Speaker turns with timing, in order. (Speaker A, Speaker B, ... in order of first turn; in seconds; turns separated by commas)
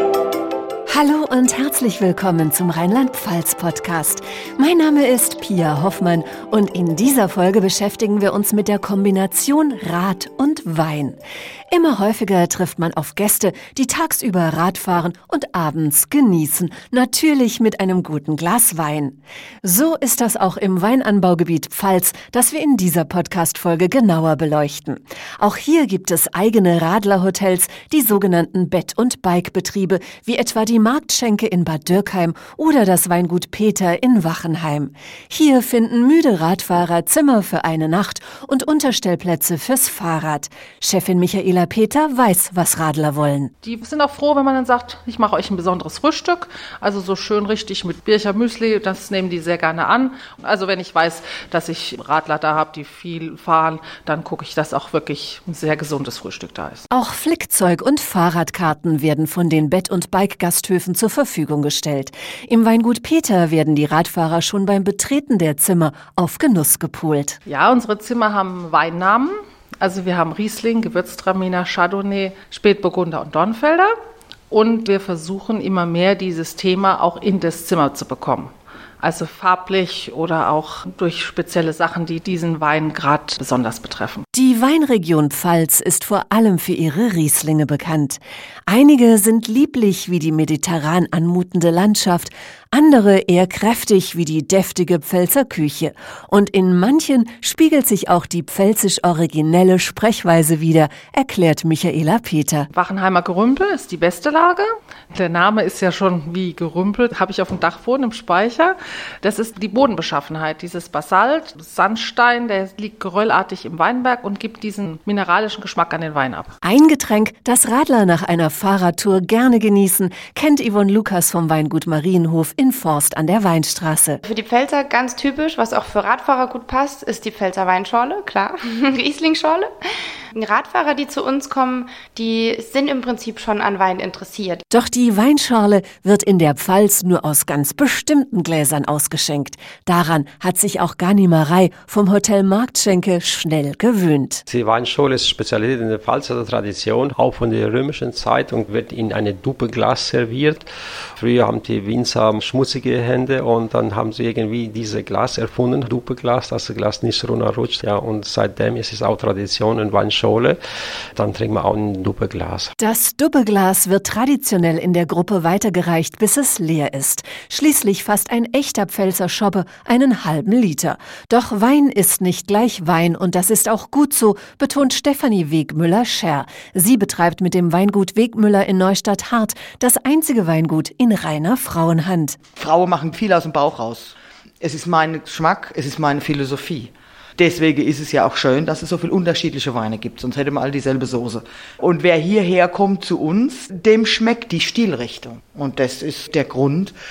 Speaker A: 0.9-11.2, Speaker A: 11.7-43.5, Speaker B: 43.6-56.9, Speaker A: 56.9-67.4, Speaker B: 67.5-73.9, Speaker B: 74.5-84.2, Speaker A: 84.3-102.7, Speaker B: 102.7-116.5, Speaker A: 116.6-124.2, Speaker C: 124.2-129.7, Speaker C: 130.3-134.6, Speaker A: 134.7-144.4, Speaker D: 144.5-150.7, Speaker D: 151.2-160.6, Speaker D: 161.2-162.7, Speaker A: 162.8-182.4, Speaker E: 182.6-196.9